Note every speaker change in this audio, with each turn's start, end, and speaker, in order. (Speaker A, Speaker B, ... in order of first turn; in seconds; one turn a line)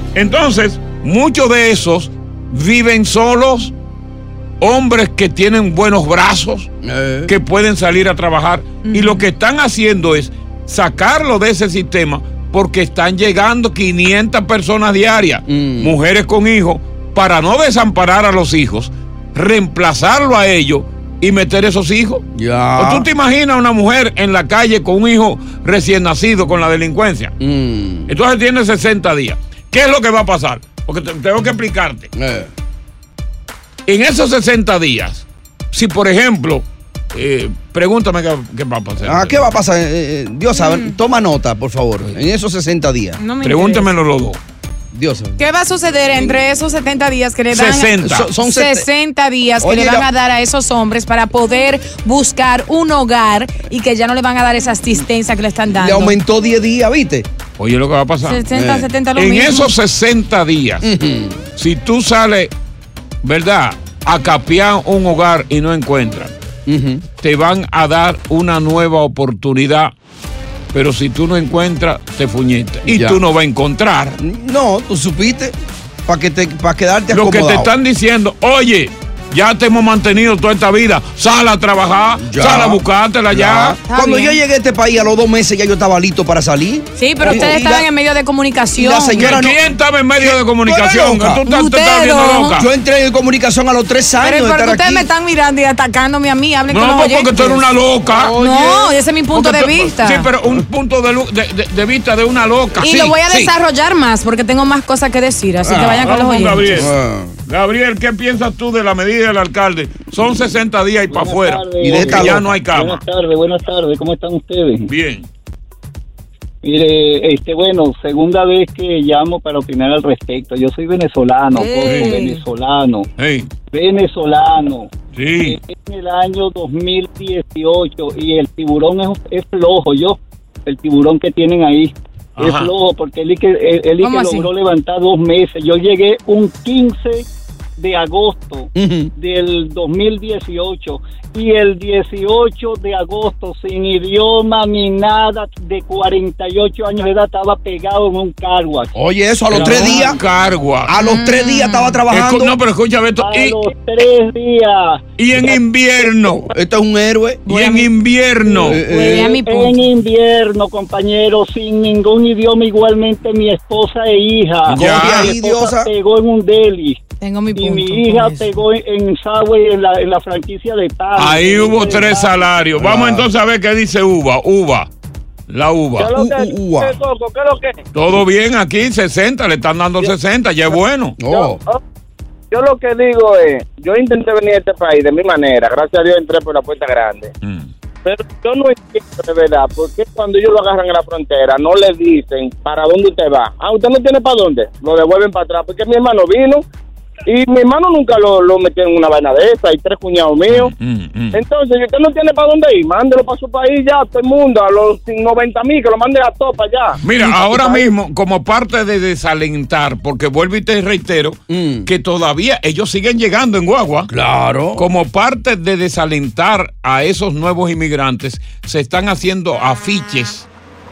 Speaker A: 0.1-3.7
Speaker A: 4.6-6.7
Speaker B: 6.8-7.3
Speaker A: 7.3-22.2
Speaker C: 8.8-9.2
Speaker B: 15.5-16.0
Speaker B: 22.4-23.1
Speaker A: 22.8-27.3
Speaker B: 27.4-28.1
Speaker A: 28.1-32.1
Speaker B: 32.1-32.5
Speaker A: 33.9-39.5
Speaker B: 39.0-43.2
Speaker C: 40.5-41.0
Speaker C: 43.2-43.9
Speaker A: 43.4-44.4
Speaker B: 44.9-45.4
Speaker C: 45.4-56.2
Speaker A: 47.5-48.3
Speaker B: 48.0-48.9
Speaker B: 49.6-50.1
Speaker B: 55.7-57.3
Speaker A: 57.6-58.5
Speaker C: 58.2-59.7
Speaker B: 58.5-58.9
Speaker A: 59.1-60.9
Speaker B: 60.8-61.4
Speaker A: 61.6-62.5
Speaker A: 63.2-66.3
Speaker B: 66.7-67.0
Speaker A: 67.2-70.0
Speaker A: 70.7-74.2
Speaker B: 72.8-73.2
Speaker B: 74.2-77.7
Speaker A: 77.1-83.8
Speaker B: 82.2-87.9
Speaker C: 83.9-84.4
Speaker C: 87.0-89.3
Speaker B: 88.8-89.6
Speaker A: 89.2-92.7
Speaker B: 90.2-91.4
Speaker C: 91.4-92.6
Speaker B: 92.5-95.1
Speaker C: 94.2-97.6
Speaker A: 96.7-98.4
Speaker B: 98.1-98.9
Speaker C: 98.3-100.3
Speaker A: 99.3-102.9
Speaker B: 102.8-103.5
Speaker C: 102.8-106.9
Speaker B: 105.6-106.1
Speaker A: 106.0-106.9
Speaker B: 106.8-107.4
Speaker A: 107.5-113.0
Speaker D: 111.1-114.9
Speaker B: 111.8-112.5
Speaker A: 114.9-115.3
Speaker D: 116.6-123.1
Speaker C: 121.5-122.4
Speaker A: 121.8-122.2
Speaker A: 123.2-123.5
Speaker D: 123.7-137.2
Speaker A: 125.2-125.6
Speaker A: 132.4-132.7
Speaker C: 134.0-134.5
Speaker D: 137.8-148.9
Speaker B: 138.8-139.1
Speaker B: 148.9-150.2
Speaker D: 149.5-150.2
Speaker A: 149.5-150.9
Speaker B: 150.9-152.6
Speaker C: 151.0-152.0
Speaker A: 152.1-153.7
Speaker D: 153.2-155.6
Speaker A: 155.2-156.5
Speaker B: 156.5-157.5
Speaker C: 157.5-157.9
Speaker A: 157.5-158.8
Speaker D: 158.4-167.0
Speaker B: 158.6-159.3
Speaker C: 158.9-159.9
Speaker A: 164.7-165.3
Speaker B: 164.7-165.9
Speaker C: 167.2-168.4
Speaker D: 167.6-172.5
Speaker A: 171.2-174.9
Speaker B: 172.8-173.3
Speaker A: 175.5-176.1
Speaker E: 176.0-177.8
Speaker B: 176.2-176.9
Speaker A: 177.9-181.2
Speaker B: 181.2-181.6
Speaker E: 181.3-181.8
Speaker E: 182.5-187.3
Speaker A: 187.4-187.7
Speaker E: 188.1-196.6
Speaker E: 197.3-200.7
Speaker A: 200.5-201.4
Speaker E: 201.3-207.9
Speaker A: 207.0-214.1
Speaker B: 211.5-211.9
Speaker B: 214.1-214.9
Speaker A: 214.8-220.5